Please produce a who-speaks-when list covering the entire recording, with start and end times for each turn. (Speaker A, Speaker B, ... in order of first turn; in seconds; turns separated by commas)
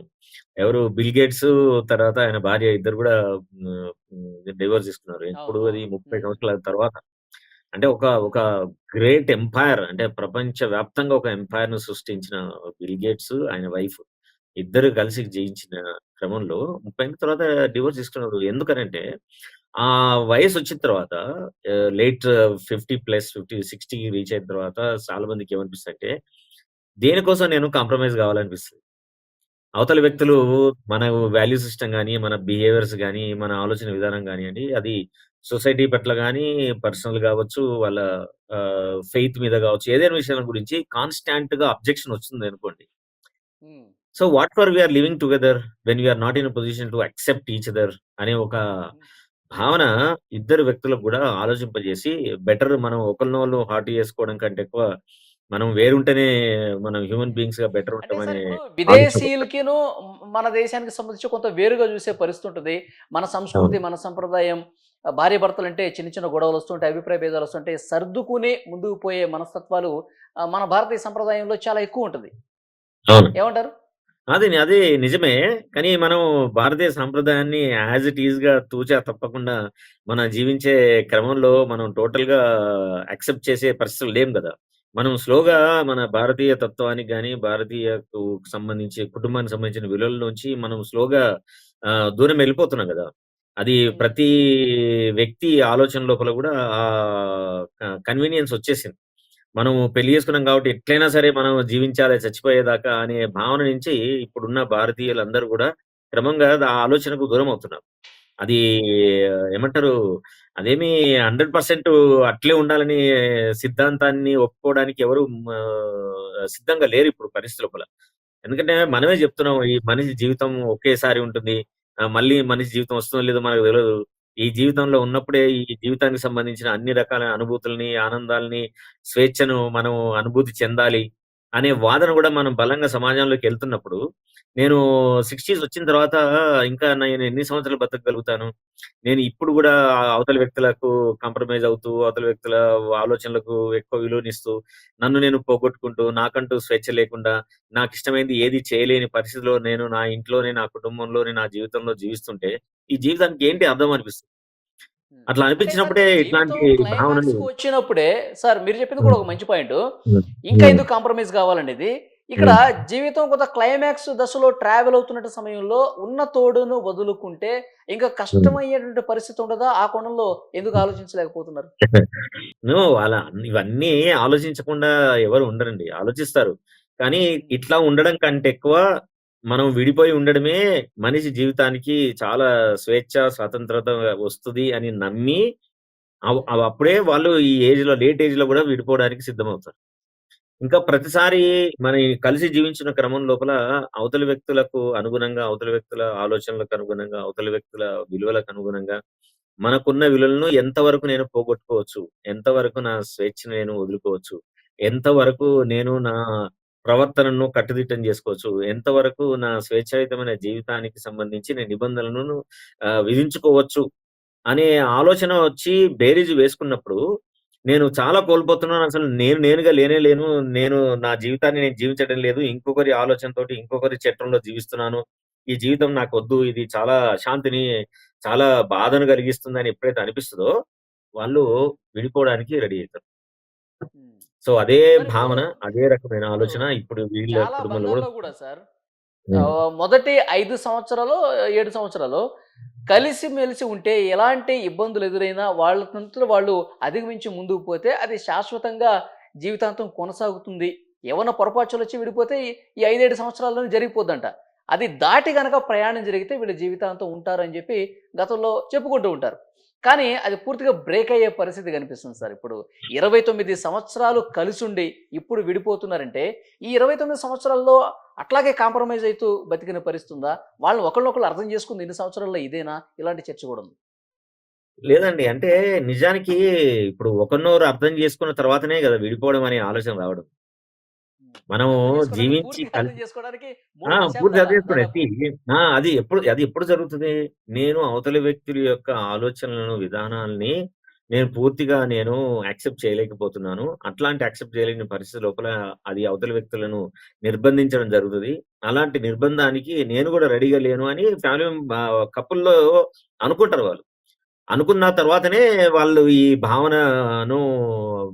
Speaker A: 0.6-7.0, Speaker B: 5.3-6.4, Speaker A: 7.7-8.4, Speaker A: 9.0-14.0, Speaker A: 14.6-19.0, Speaker A: 19.8-21.2, Speaker A: 21.9-26.1, Speaker A: 27.0-28.8, Speaker A: 29.8-34.9, Speaker A: 35.5-38.0, Speaker A: 38.5-42.8, Speaker B: 43.6-43.9, Speaker A: 44.2-48.6, Speaker A: 49.6-54.8, Speaker A: 55.5-56.3, Speaker A: 56.9-59.3, Speaker B: 58.0-59.8, Speaker B: 60.3-64.6, Speaker B: 65.2-69.9, Speaker B: 70.5-72.3, Speaker B: 73.3-73.7, Speaker A: 74.3-79.5, Speaker A: 80.1-82.4, Speaker A: 83.1-91.2, Speaker A: 92.2-93.0, Speaker A: 93.6-94.3, Speaker B: 93.9-94.3, Speaker A: 95.2-98.9, Speaker A: 99.6-107.8, Speaker A: 109.5-109.9, Speaker A: 110.6-113.0, Speaker A: 113.6-117.8, Speaker A: 118.5-121.6, Speaker A: 122.1-123.9, Speaker A: 124.4-131.0, Speaker A: 131.6-134.0, Speaker A: 134.6-136.2, Speaker A: 136.7-138.5, Speaker A: 139.0-154.3, Speaker B: 155.1-159.8, Speaker A: 155.3-157.5, Speaker A: 160.1-160.8, Speaker B: 160.5-171.7, Speaker A: 172.7-178.8, Speaker B: 177.3-177.6, Speaker A: 179.5-185.4, Speaker A: 186.4-189.7, Speaker A: 190.6-198.9, Speaker A: 199.6-204.3, Speaker A: 204.9-206.1, Speaker B: 205.4-205.7, Speaker A: 206.9-212.3, Speaker A: 213.1-213.8, Speaker A: 214.5-217.0, Speaker A: 217.7-225.0, Speaker A: 225.5-227.6, Speaker A: 228.2-230.5, Speaker A: 231.2-233.0, Speaker B: 233.9-234.2, Speaker A: 234.4-238.1, Speaker B: 234.9-235.7, Speaker B: 236.4-236.7, Speaker B: 237.3-238.6, Speaker B: 239.3-242.2, Speaker B: 242.9-248.9, Speaker B: 249.4-273.7, Speaker A: 274.9-276.4, Speaker A: 276.9-280.3, Speaker B: 281.3-285.0, Speaker A: 281.5-282.9, Speaker A: 283.9-290.5, Speaker A: 291.1-301.6, Speaker A: 302.1-302.5, Speaker A: 303.2-303.8, Speaker A: 304.5-307.4